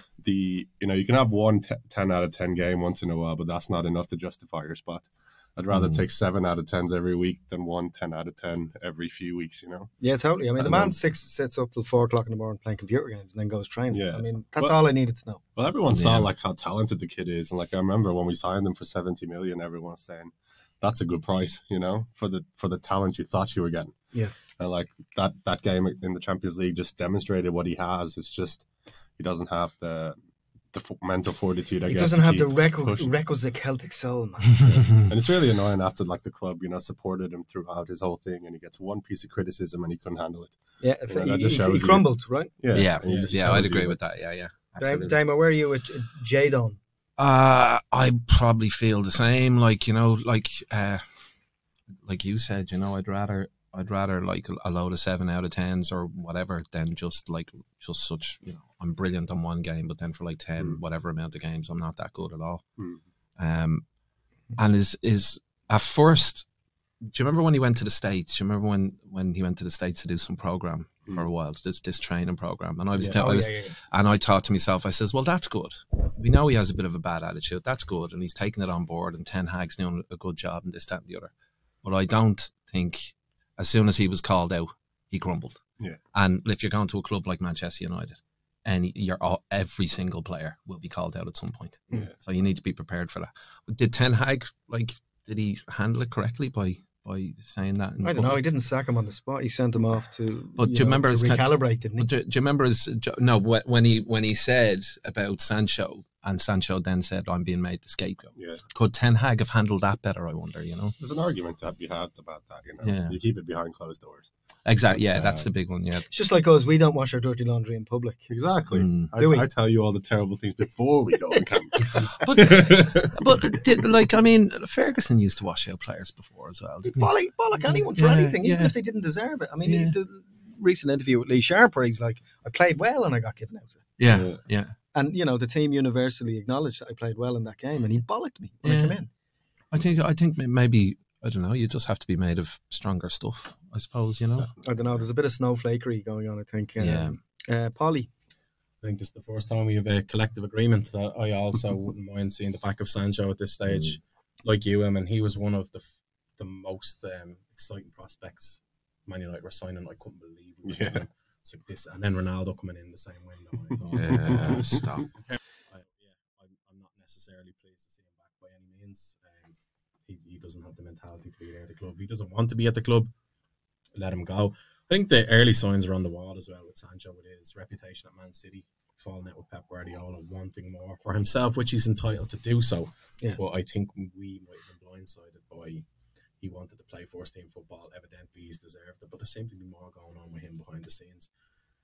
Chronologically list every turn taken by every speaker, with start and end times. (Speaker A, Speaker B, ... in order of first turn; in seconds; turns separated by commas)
Speaker A: 0.2-9.9, Speaker B: 5.7-6.0, Speaker C: 10.0-15.4, Speaker A: 10.6-10.9, Speaker A: 13.9-14.8, Speaker A: 15.6-23.9, Speaker B: 15.9-16.3, Speaker A: 24.6-28.7, Speaker A: 29.2-30.2, Speaker A: 30.7-33.1, Speaker C: 31.9-34.8, Speaker A: 34.7-42.1, Speaker C: 40.8-42.5, Speaker A: 42.6-44.0, Speaker B: 42.7-45.1, Speaker C: 44.8-46.8, Speaker B: 47.2-51.0, Speaker B: 52.0-62.6, Speaker B: 63.4-63.8, Speaker B: 64.5-66.5, Speaker B: 67.1-81.3, Speaker C: 73.0-73.8, Speaker B: 81.8-85.6, Speaker B: 86.1-98.4, Speaker C: 98.0-102.1, Speaker B: 100.6-110.9, Speaker A: 108.3-108.6, Speaker A: 111.0-114.3, Speaker B: 112.8-113.2, Speaker B: 114.7-116.0, Speaker A: 114.8-115.5, Speaker C: 116.1-118.3, Speaker A: 118.3-124.0, Speaker B: 118.7-119.1, Speaker C: 119.2-119.5, Speaker B: 122.2-128.7, Speaker C: 126.9-133.8, Speaker B: 129.6-129.9, Speaker B: 134.0-134.7, Speaker A: 134.1-134.4, Speaker C: 134.9-139.1, Speaker B: 138.6-138.9, Speaker B: 139.7-144.5, Speaker C: 144.6-148.1, Speaker B: 146.8-147.2, Speaker D: 148.8-169.5, Speaker B: 153.7-153.9, Speaker A: 160.7-161.0, Speaker A: 163.9-165.0, Speaker B: 163.9-165.1, Speaker D: 170.1-173.1, Speaker D: 173.9-185.8, Speaker D: 186.4-191.3